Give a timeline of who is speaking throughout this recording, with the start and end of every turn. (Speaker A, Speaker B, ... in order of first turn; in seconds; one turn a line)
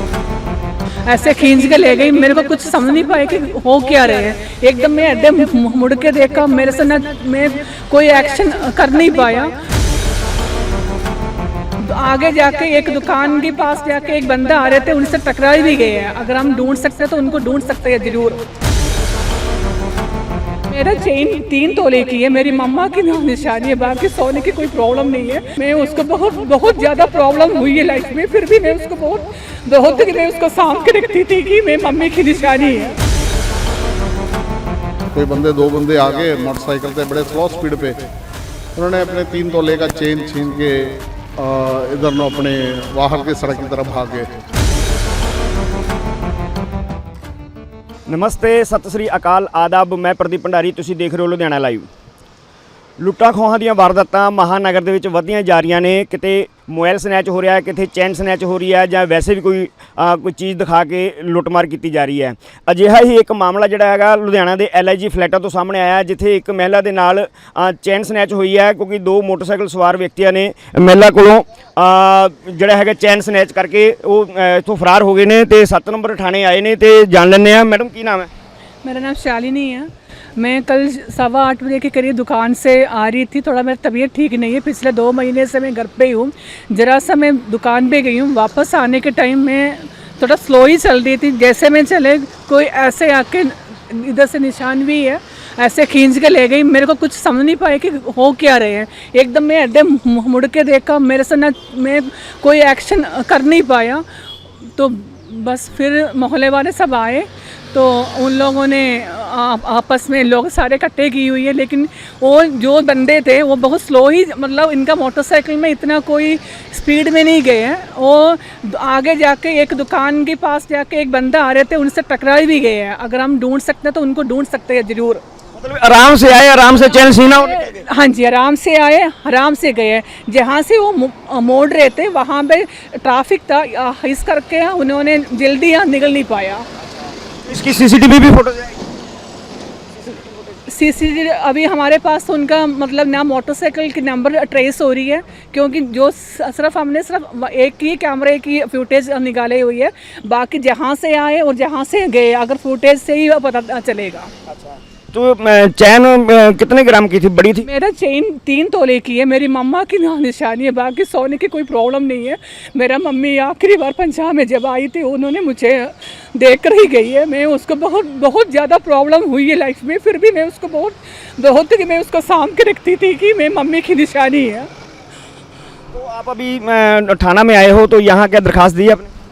Speaker A: 1.1-9.5
Speaker A: 11.8-18.4
Speaker A: 20.7-33.0
Speaker B: 35.1-38.0
Speaker B: 38.8-44.3
Speaker C: 48.1-51.9
Speaker C: 53.0-78.3
Speaker A: 78.8-104.0
Speaker A: 104.7-125.2
Speaker C: 125.5-127.8
Speaker A: 127.3-136.6
Speaker C: 137.4-138.8
Speaker A: 140.7-154.3
Speaker C: 154.5-157.7
Speaker A: 157.6-174.7
Speaker C: 175.9-179.1